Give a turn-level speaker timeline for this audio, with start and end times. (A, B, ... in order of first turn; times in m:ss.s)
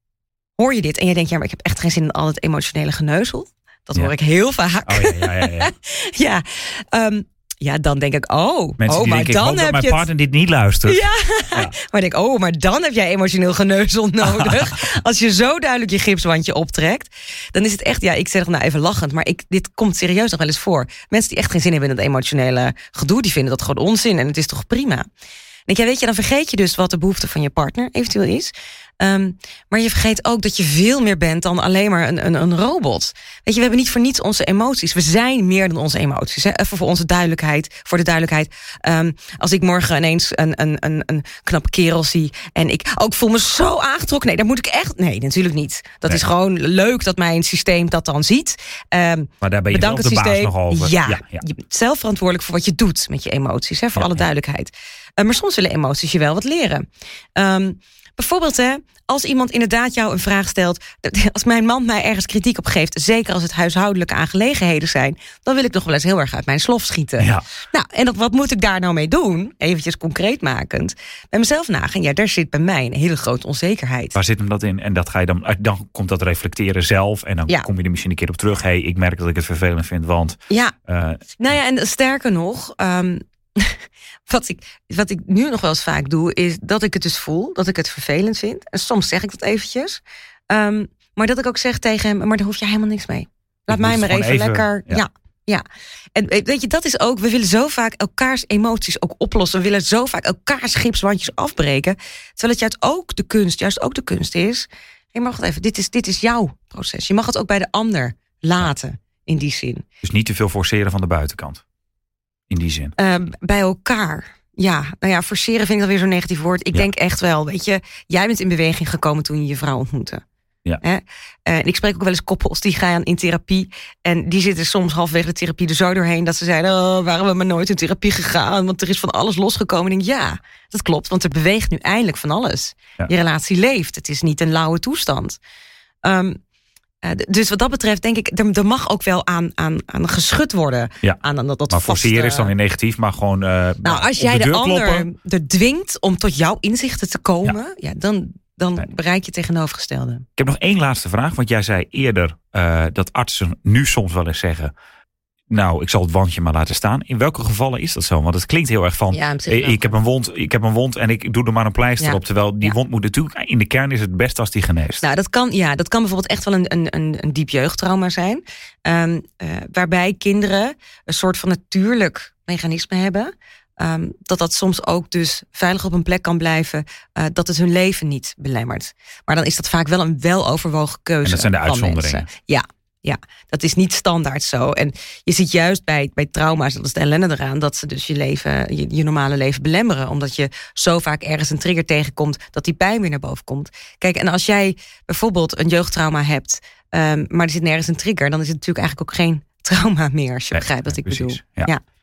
0:00.6-0:10.0 A
0:04.8-0:05.7 B
0:08.8-0:11.7 B
0:10.8-0:25.1 A
0:14.3-0:14.7 B
0:25.7-0:56.8 A
0:49.4-0:51.4 B
0:54.0-0:54.2 B
0:57.4-1:14.2 A
1:07.2-1:07.4 B
1:14.1-1:21.2 B
1:20.5-1:20.7 A
1:21.4-1:35.6 A
1:33.7-1:35.0 B
1:36.1-1:49.8 A
1:50.0-1:51.6 B
1:52.5-1:52.9 B
1:53.0-2:00.2 A
2:00.8-2:15.4 A
2:16.0-2:16.4 A
2:17.0-2:22.5 A
2:21.7-2:25.1 B
2:23.8-2:30.2 A
2:30.4-2:34.7 B
2:35.5-2:45.0 B
2:39.1-2:39.9 A
2:42.0-2:42.7 A
2:45.0-3:21.8 A
3:01.2-3:02.3 B
3:20.5-3:21.7 B